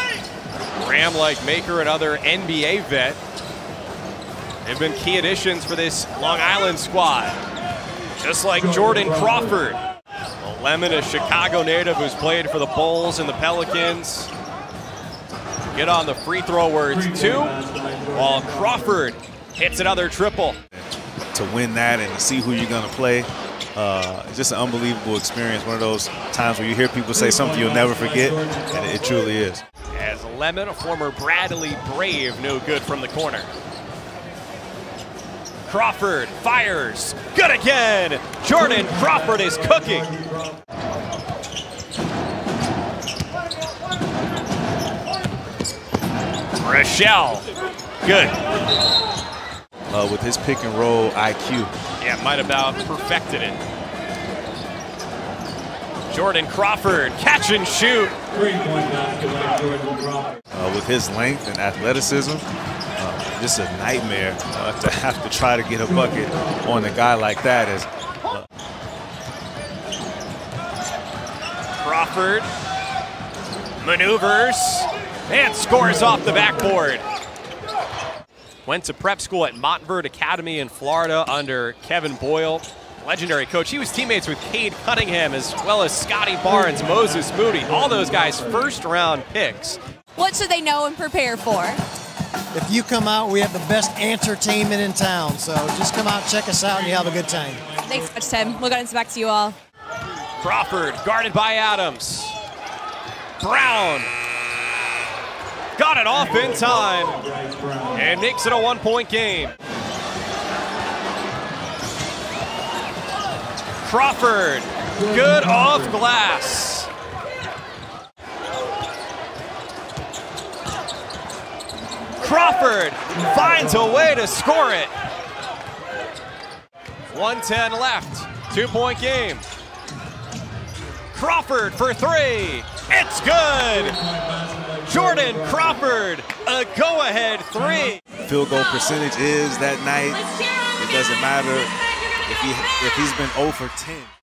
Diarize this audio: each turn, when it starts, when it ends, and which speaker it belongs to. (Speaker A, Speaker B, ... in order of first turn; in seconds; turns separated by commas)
Speaker A: 0.8-3.2, Speaker A: 4.7-7.4, Speaker A: 8.2-9.8, Speaker A: 10.4-14.3, Speaker A: 15.7-20.6, Speaker B: 20.7-29.6, Speaker A: 29.9-33.5, Speaker A: 35.7-40.1, Speaker A: 46.6-47.5, Speaker A: 48.0-48.4, Speaker B: 49.9-51.7, Speaker A: 52.0-53.6, Speaker A: 56.1-59.7, Speaker B: 60.5-62.5, Speaker B: 63.0-68.5, Speaker A: 71.8-72.5, Speaker A: 73.8-77.0, Speaker A: 78.7-89.8, Speaker C: 90.2-91.8, Speaker D: 92.5-97.7, Speaker C: 97.8-99.6, Speaker A: 100.4-102.4, Speaker A: 103.4-104.1, Speaker A: 105.8-109.5, Speaker A: 113.8-116.9, Speaker A: 122.2-124.9, Speaker A: 127.1-129.4, Speaker A: 131.1-134.0, Speaker A: 134.8-138.0, Speaker B: 138.2-141.7, Speaker B: 142.3-144.1